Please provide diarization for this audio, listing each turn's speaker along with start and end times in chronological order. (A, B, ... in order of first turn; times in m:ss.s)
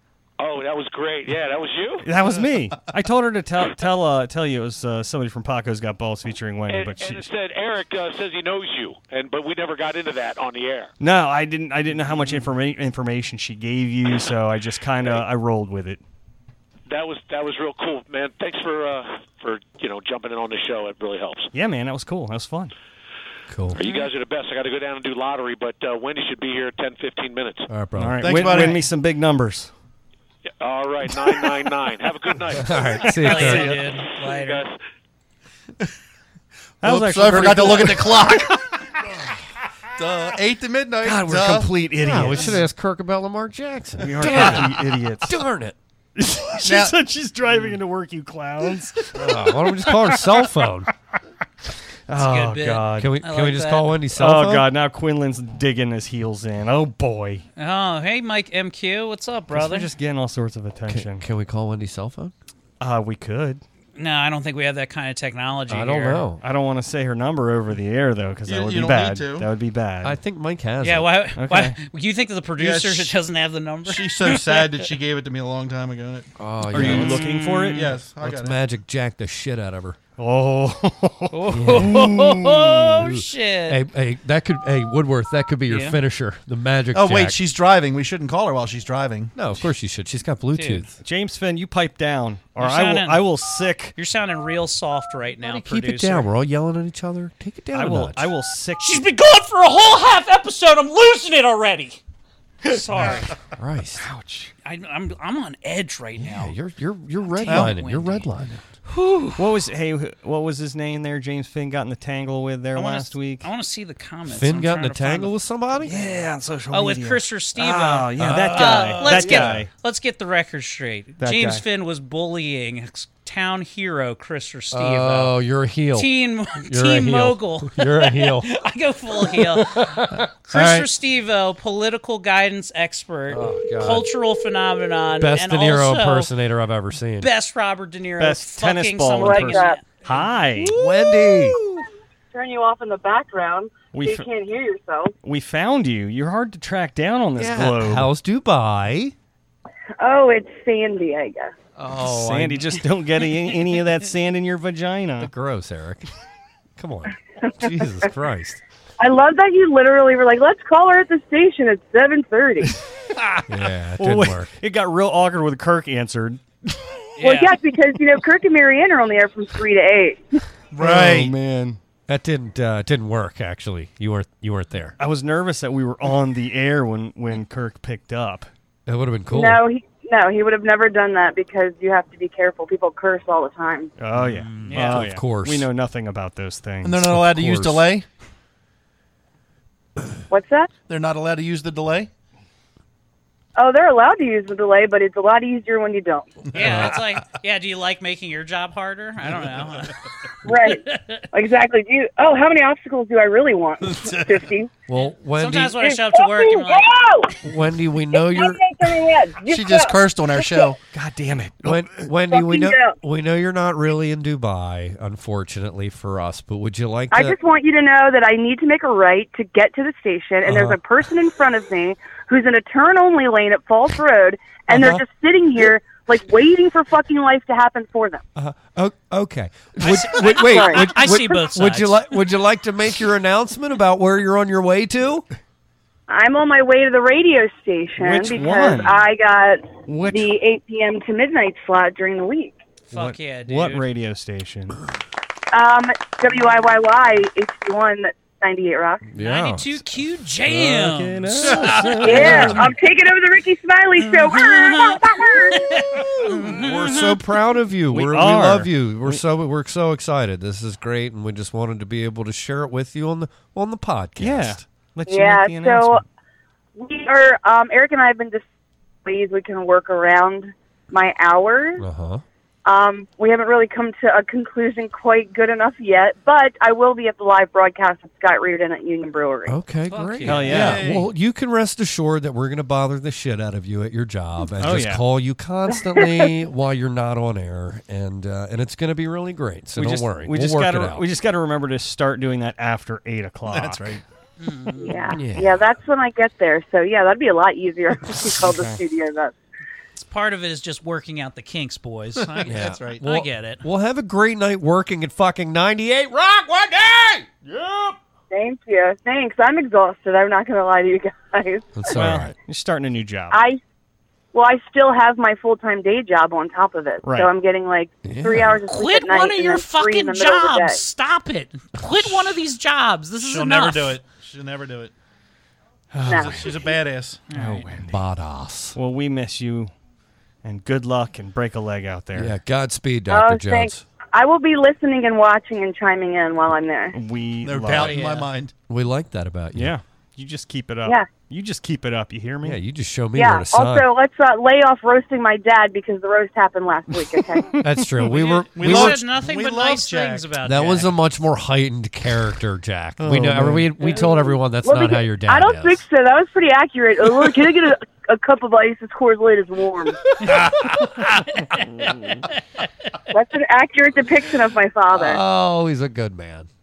0:00.4-0:02.1 A
0:02.0-0:07.3 B
0:06.7-0:10.9 A
0:11.0-0:16.0 B
0:16.9-0:21.5 A
0:21.5-0:22.7 B
0:23.5-0:23.8 C
0:23.7-0:27.7 A
0:27.7-0:28.6 C
0:28.0-0:29.7 B
0:28.2-0:28.8 D
0:30.6-0:34.8 A
0:32.6-0:33.8 C
0:33.2-0:34.6 E
0:36.8-0:38.5 B
0:36.8-0:38.7 D
0:40.0-0:41.8 D
0:41.0-0:42.7 B
0:42.0-0:45.8 C
0:44.0-0:45.4 B
0:46.2-0:50.5 B
0:46.6-0:47.0 D
0:49.1-0:50.9 C
0:52.1-0:53.2 B
0:52.2-0:54.0 E
0:53.0-0:54.7 C
0:54.2-0:57.4 B
0:57.6-0:59.9 E
0:59.5-1:01.2 B
1:00.9-1:02.3 C
1:02.8-1:03.6 B
1:04.0-1:06.2 E
1:05.7-1:06.4 C
1:06.4-1:10.2 B
1:08.5-1:09.5 D
1:10.0-1:11.1 C
1:10.8-1:14.7 E
1:11.4-1:11.8 B
1:12.6-1:13.2 D
1:13.8-1:17.2 D
1:16.4-1:17.3 C
1:16.7-1:17.9 B
1:16.8-1:17.9 E
1:17.7-1:18.6 D
1:18.2-1:20.0 C
1:20.2-1:22.8 B
1:21.3-1:23.8 E
1:21.5-1:22.1 C
1:23.0-1:27.4 C
1:25.7-1:26.0 E
1:26.9-1:29.3 D
1:29.4-1:31.0 C
1:30.6-1:30.8 E
1:31.0-1:34.0 B
1:32.6-1:33.2 E
1:34.0-1:36.3 E
1:35.4-1:38.3 C
1:37.7-1:39.1 B
1:38.8-1:42.0 E
1:42.6-1:43.3 E
1:43.5-1:44.0 C
1:44.0-1:44.5 B
1:44.6-1:46.6 E
1:46.2-1:48.6 C
1:47.2-1:48.3 E
1:47.5-1:47.7 D
1:48.9-1:49.4 E
1:49.4-1:53.5 B
1:52.8-1:55.3 E
1:54.3-1:56.0 C
1:55.8-1:59.7 B
1:56.7-2:05.4 E
1:58.2-1:59.6 C
2:01.2-2:01.6 B
2:04.7-2:08.5 C
2:05.9-2:16.3 E
2:09.2-2:10.7 C
2:10.6-2:10.8 D
2:13.3-2:14.1 C
2:15.2-2:17.3 C
2:17.2-2:20.2 E
2:18.2-2:20.8 B
2:19.2-2:19.8 F
2:20.6-2:21.8 C
2:22.3-2:25.1 F
2:23.9-2:24.3 B
2:25.2-2:28.1 B
2:27.4-2:29.1 C
2:30.0-2:31.5 F
2:31.8-2:32.6 C
2:32.0-2:35.3 B
2:35.2-2:36.1 C
2:36.8-2:38.6 C
2:39.0-2:42.8 F
2:42.7-2:46.8 B
2:43.5-2:44.5 C
2:47.2-2:47.6 E
2:47.2-2:50.2 F
2:50.7-2:51.3 D
2:50.8-2:51.8 B
2:52.1-2:55.0 C
2:55.0-2:58.5 B
2:58.9-2:59.6 C
2:59.3-3:03.9 F
3:04.0-3:07.1 B
3:04.2-3:05.7 C
3:04.6-3:05.1 E
3:06.8-3:08.1 D
3:07.0-3:07.9 C
3:10.3-3:10.7 F
3:10.9-3:12.1 D
3:13.6-3:16.4 F
3:16.5-3:21.2 E
3:16.6-3:17.0 C
3:20.4-3:24.7 F
3:24.0-3:24.2 D
3:24.9-3:25.8 C
3:25.0-3:26.9 E
3:25.8-3:27.4 F
3:27.4-3:28.7 C
3:28.1-3:30.7 F
3:29.4-3:30.8 D
3:30.9-3:32.0 B
3:31.6-3:37.4 C
3:32.3-3:33.0 F
3:37.1-3:48.2 F
3:44.7-3:45.0 C
3:48.4-3:55.3 C
3:49.8-3:52.2 E
3:50.3-3:50.9 F
3:56.1-4:02.6 F
3:58.0-3:59.0 B
3:59.9-4:00.3 B
4:02.9-4:03.9 E
4:02.9-4:04.8 B
4:05.5-4:09.0 F
4:09.1-4:10.0 C
4:09.2-4:12.5 E
4:10.5-4:12.7 B
4:11.4-4:12.6 C
4:12.0-4:15.8 F
4:14.0-4:17.2 E
4:16.2-4:24.6 C
4:17.9-4:19.2 B
4:24.2-4:26.0 B
4:25.1-4:26.0 F
4:26.8-4:28.4 F
4:29.0-4:31.8 F
4:31.8-4:32.2 C
4:32.6-4:39.6 F
4:39.5-4:51.1 C
4:39.9-4:40.8 E
4:40.2-4:41.0 B
4:40.5-4:41.1 D
4:44.6-4:45.0 B
4:46.0-4:46.3 F
4:49.8-4:54.0 B
4:53.5-4:54.0 D
4:54.4-4:55.2 E
4:54.8-4:59.4 F
4:55.1-4:55.6 C
4:58.4-4:58.8 B
5:00.0-5:03.6 E
5:02.2-5:03.0 D
5:02.4-5:07.3 C
5:07.6-5:07.9 D
5:08.3-5:12.0 F
5:11.8-5:12.3 C
5:11.9-5:13.4 B
5:13.3-5:13.6 F
5:14.3-5:20.8 F
5:17.0-5:17.3 B
5:18.0-5:18.6 C
5:18.7-5:24.0 E
5:23.2-5:24.9 D
5:25.9-5:26.6 B
5:26.1-5:26.6 F
5:26.1-5:27.2 D
5:27.3-5:27.7 E
5:27.3-5:28.0 B
5:27.8-5:28.8 C
5:28.8-5:29.7 B
5:30.4-5:32.3 B
5:32.1-5:33.8 C
5:33.1-5:37.0 F
5:36.9-5:38.0 B
5:37.4-5:38.5 D
5:37.7-5:38.3 E
5:38.7-5:39.7 C
5:39.5-5:42.6 B
5:42.4-5:43.9 C
5:43.2-5:47.5 F
5:47.6-5:49.0 C
5:48.1-5:50.9 E
5:48.5-5:50.4 D
5:50.4-5:55.8 C
5:53.0-5:53.7 B
5:53.9-6:00.1 F
6:00.2-6:01.2 C
6:00.3-6:01.9 E
6:03.1-6:05.2 F
6:04.9-6:06.5 C